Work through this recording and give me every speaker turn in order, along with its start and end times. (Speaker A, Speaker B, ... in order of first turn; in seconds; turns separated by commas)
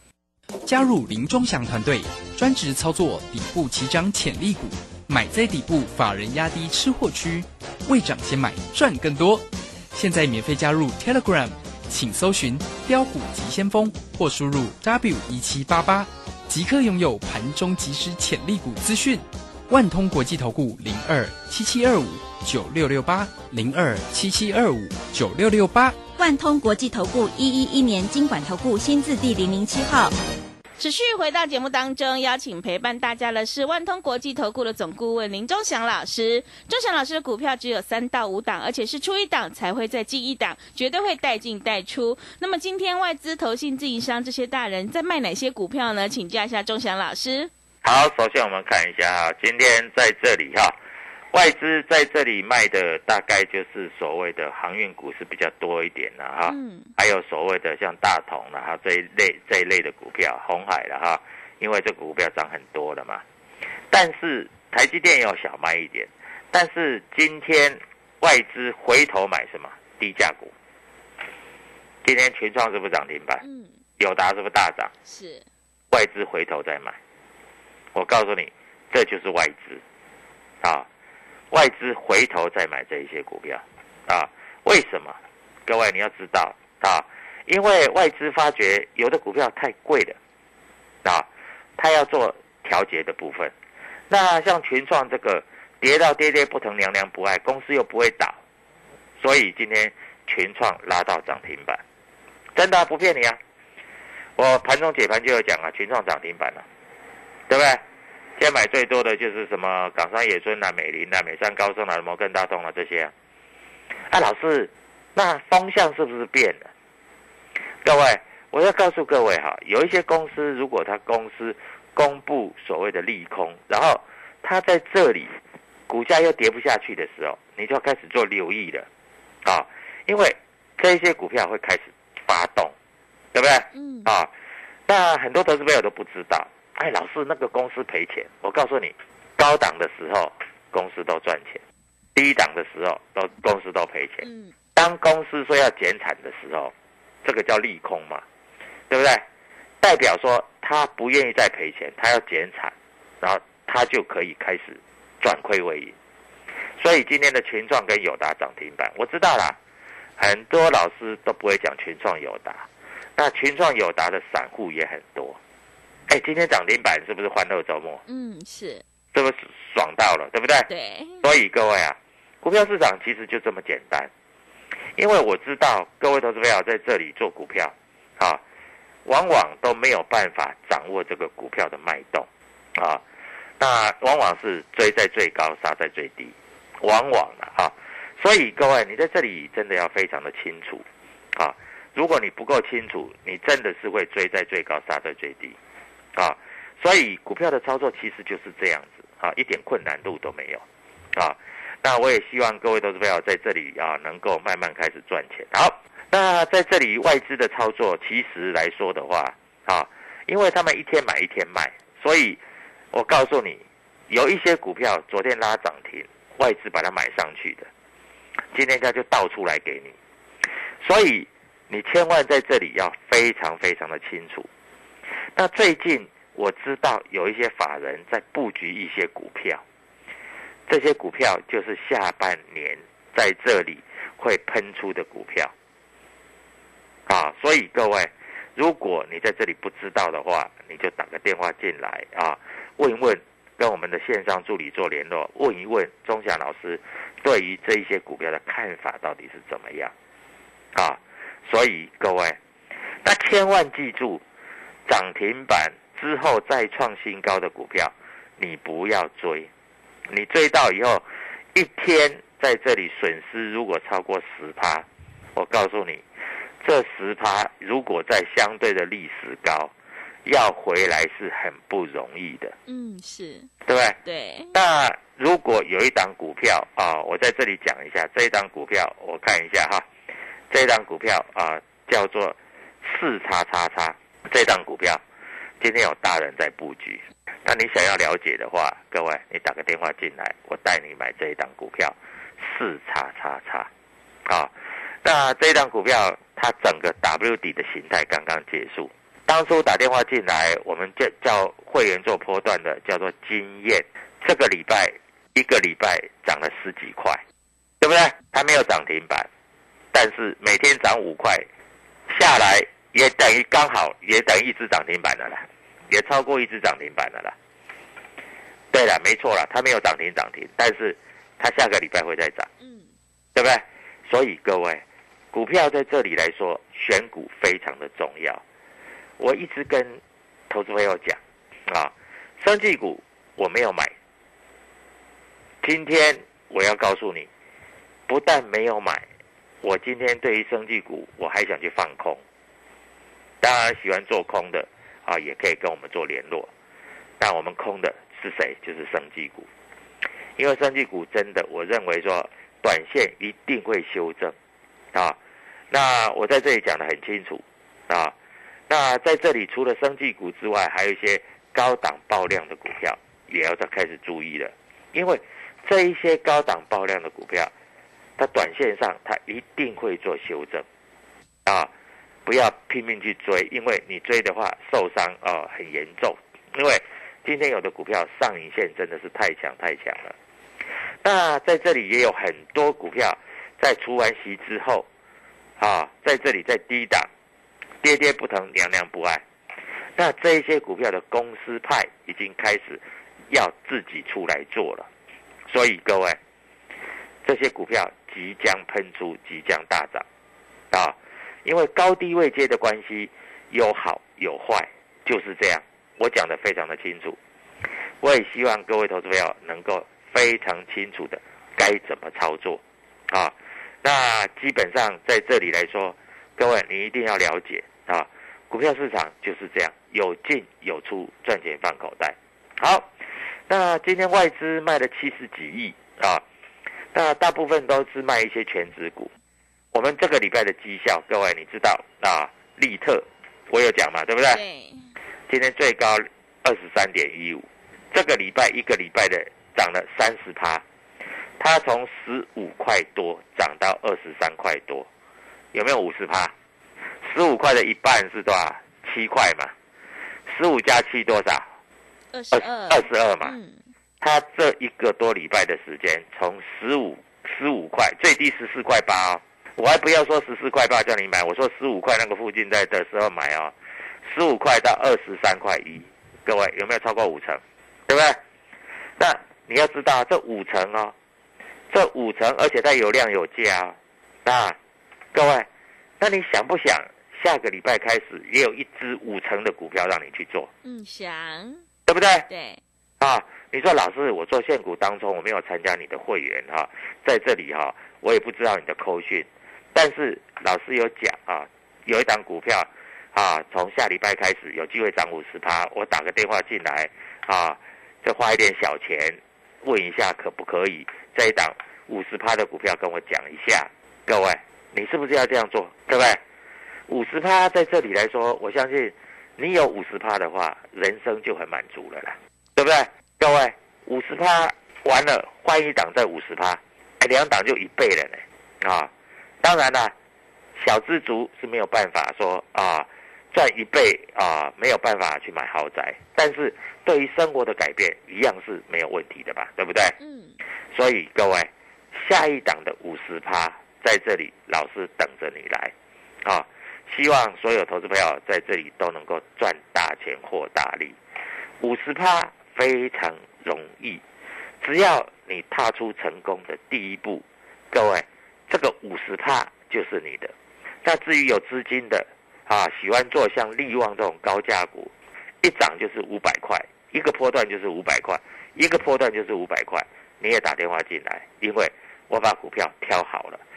Speaker A: 0.7-26.0, Speaker B: 26.2-30.1, Speaker C: 30.8-47.5, Speaker D: 47.8-50.8, Speaker D: 51.3-63.2, Speaker C: 56.5-56.9, Speaker D: 63.9-70.5, Speaker D: 72.0-73.4, Speaker C: 73.4-73.8, Speaker D: 74.0-74.9, Speaker C: 75.1-75.5, Speaker D: 75.9-77.0, Speaker D: 78.0-79.8, Speaker D: 80.6-80.9, Speaker D: 81.5-90.2, Speaker D: 91.0-93.5, Speaker D: 94.1-98.4, Speaker D: 99.2-101.8, Speaker D: 102.5-103.4, Speaker D: 104.4-106.7, Speaker D: 107.5-107.8, Speaker D: 108.4-113.1, Speaker D: 114.1-116.7, Speaker D: 117.8-125.4, Speaker D: 125.9-128.9, Speaker D: 129.4-132.7, Speaker D: 133.3-134.3, Speaker C: 133.7-134.1, Speaker D: 134.9-141.6, Speaker D: 142.2-146.7, Speaker C: 144.2-144.5, Speaker D: 147.2-148.2, Speaker D: 148.9-149.2, Speaker D: 149.8-155.9, Speaker D: 156.8-159.6, Speaker D: 160.2-165.4, Speaker D: 166.1-168.0, Speaker C: 168.1-168.8, Speaker D: 169.1-170.7, Speaker C: 170.7-171.2, Speaker D: 171.2-174.1, Speaker D: 175.0-178.4, Speaker D: 179.1-183.0, Speaker D: 183.6-190.8, Speaker D: 191.4-195.6, Speaker D: 196.2-200.6, Speaker D: 201.2-212.4, Speaker D: 212.9-217.7, Speaker D: 218.5-219.9, Speaker D: 220.8-224.5, Speaker D: 225.4-229.6, Speaker D: 230.7-235.5, Speaker D: 237.1-249.9, Speaker D: 250.7-252.4, Speaker D: 253.1-254.2, Speaker D: 254.9-259.5, Speaker D: 260.1-261.0, Speaker D: 261.6-266.0, Speaker D: 266.6-269.7, Speaker D: 270.3-272.6, Speaker C: 272.7-273.5, Speaker D: 273.7-274.0, Speaker C: 274.1-274.5, Speaker D: 274.5-279.9, Speaker D: 280.5-285.0, Speaker D: 285.6-293.7, Speaker D: 295.0-307.2, Speaker D: 307.8-309.3, Speaker D: 309.9-311.5, Speaker D: 312.1-317.4, Speaker D: 318.7-322.5, Speaker C: 322.6-322.9, Speaker D: 323.4-328.4, Speaker D: 329.2-333.9, Speaker D: 335.6-337.3, Speaker D: 338.1-339.1, Speaker D: 339.6-342.2, Speaker D: 343.4-346.5, Speaker D: 347.2-349.5, Speaker D: 350.4-354.4, Speaker D: 355.7-358.1, Speaker D: 358.7-367.5, Speaker D: 368.2-370.6, Speaker D: 371.5-371.7, Speaker D: 372.3-380.1, Speaker D: 381.0-384.9, Speaker D: 385.6-387.1, Speaker D: 387.8-389.2, Speaker D: 390.0-394.9, Speaker D: 395.5-396.2, Speaker D: 397.2-400.1, Speaker D: 400.7-407.2, Speaker D: 408.0-422.9, Speaker D: 423.5-426.2, Speaker D: 426.9-429.1, Speaker D: 429.7-434.4, Speaker C: 434.3-434.9, Speaker D: 435.3-440.6, Speaker D: 441.4-444.9, Speaker D: 445.5-446.3, Speaker D: 447.0-449.5, Speaker D: 450.3-451.5, Speaker C: 452.1-453.6, Speaker D: 452.3-453.3, Speaker D: 454.0-463.5, Speaker D: 464.1-468.2, Speaker D: 469.0-470.9, Speaker D: 471.7-474.6, Speaker D: 475.1-475.5, Speaker D: 476.0-480.5, Speaker C: 480.6-481.6, Speaker D: 481.9-482.3, Speaker C: 482.3-482.6, Speaker D: 483.0-506.2, Speaker D: 506.9-518.9, Speaker D: 519.4-519.9, Speaker D: 520.6-530.0, Speaker C: 530.0-530.4, Speaker D: 530.7-535.7, Speaker D: 536.2-541.0, Speaker D: 541.6-544.0, Speaker D: 544.6-550.3, Speaker D: 550.9-554.9, Speaker D: 555.4-563.4